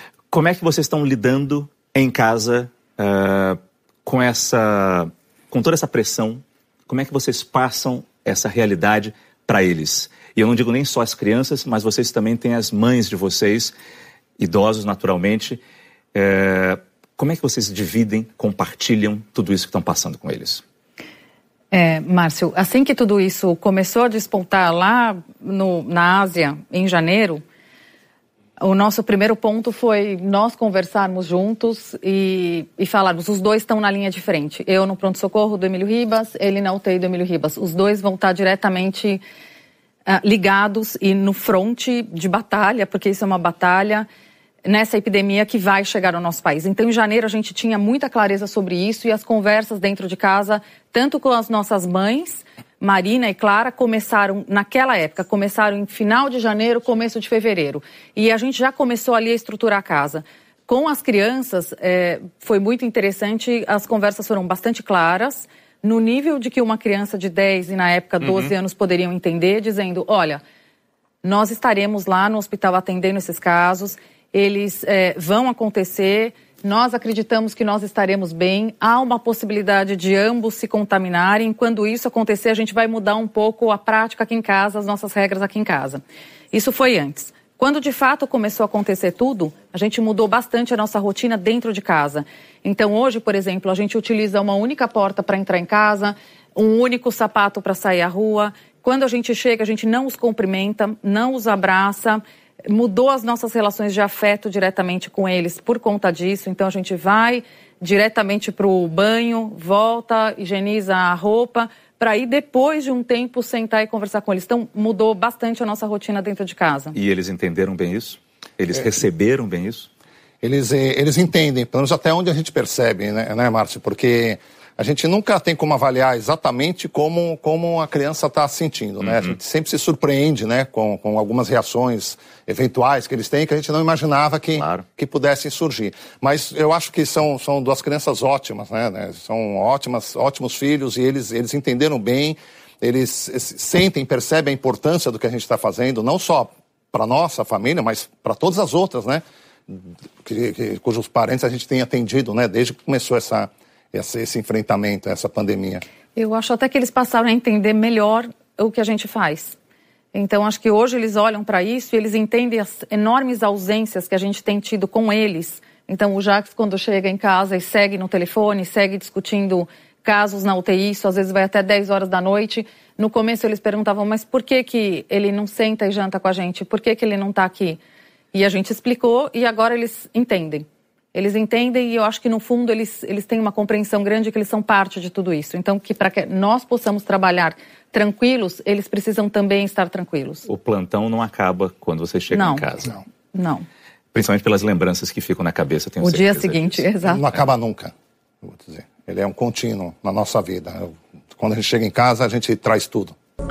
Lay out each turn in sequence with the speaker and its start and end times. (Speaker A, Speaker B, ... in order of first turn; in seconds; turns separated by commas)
Speaker A: 0.3-13.7, Speaker A: 14.4-15.6, Speaker A: 16.1-20.6, Speaker B: 21.7-27.4, Speaker B: 28.6-39.2, Speaker B: 40.1-44.0, Speaker B: 44.6-70.4, Speaker B: 71.2-86.0, Speaker B: 86.5-117.0, Speaker A: 116.9-119.9, Speaker C: 120.4-155.8, Speaker A: 129.0-129.3, Speaker A: 134.6-134.8, Speaker B: 156.2-159.6, Speaker B: 160.1-177.8, Speaker B: 178.3-190.5, Speaker A: 190.5-193.0, Speaker B: 192.3-192.7, Speaker B: 193.3-193.7, Speaker A: 194.1-196.8, Speaker B: 196.0-197.3, Speaker C: 197.0-197.9, Speaker C: 198.4-203.2